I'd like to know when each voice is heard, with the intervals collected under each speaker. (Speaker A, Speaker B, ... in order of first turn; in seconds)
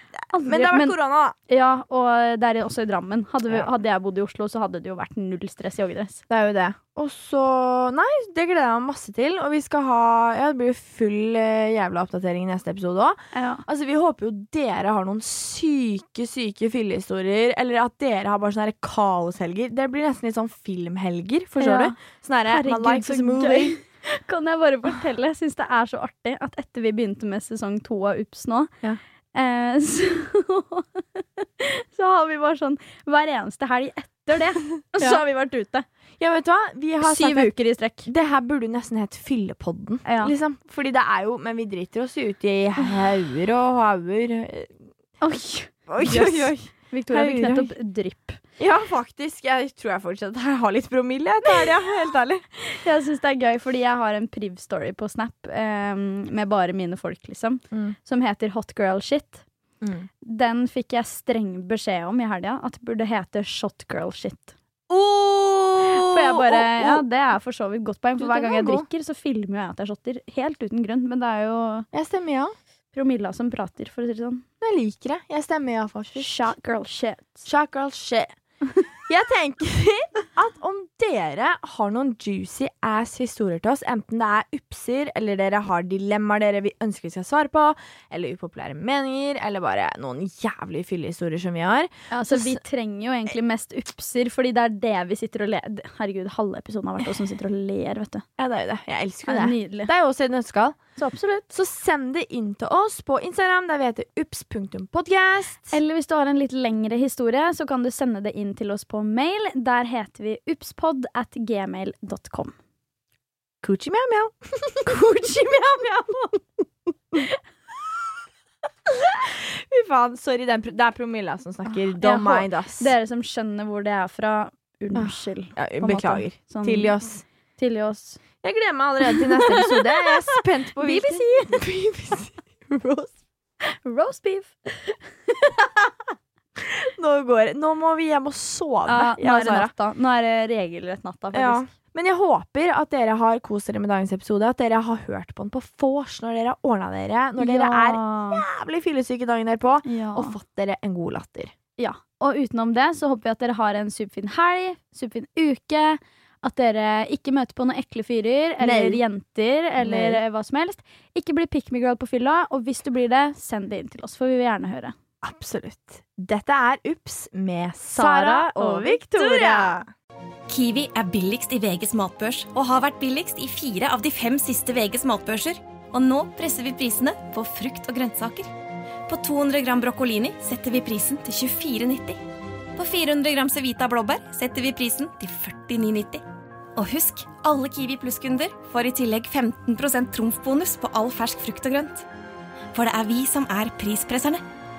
Speaker A: 0.3-0.9, 1.5-6.2, 13.3-13.6, 21.6-22.0, 22.5-28.7, 29.3-35.9, 37.0-38.1, 40.0-40.3, 45.2-48.4, 51.5-51.8, 52.6-59.4, 60.2-64.5, 65.9-71.8, 72.9-74.4, 76.1-77.5, 92.1-98.2, 99.2-99.9, 101.0-101.5, 105.7-112.5, 114.8-116.4, 122.0-126.9, 127.6-128.2, 129.0-131.6, 133.6-135.3, 138.8-141.6, 147.4-148.4, 149.8-150.3, 151.8-164.9, 167.9-169.8
Speaker B: 0.3-1.4, 6.3-23.8, 35.0-35.2, 36.2-37.5, 38.0-44.8, 45.9-47.7, 48.6-52.4, 59.8-60.1, 64.9-67.0, 68.2-68.8, 71.9-72.5, 74.6-76.5, 77.5-78.3, 79.0-92.6, 98.4-100.8, 101.5-105.8, 113.6-114.9, 119.0-122.9, 124.9-127.2, 128.4-133.2, 136.6-139.7, 141.3-151.5, 158.6-159.0, 159.8-160.2, 165.2-169.8
Speaker C: 170.5-178.5, 179.1-182.2, 182.8-186.2, 186.8-192.1, 192.7-194.4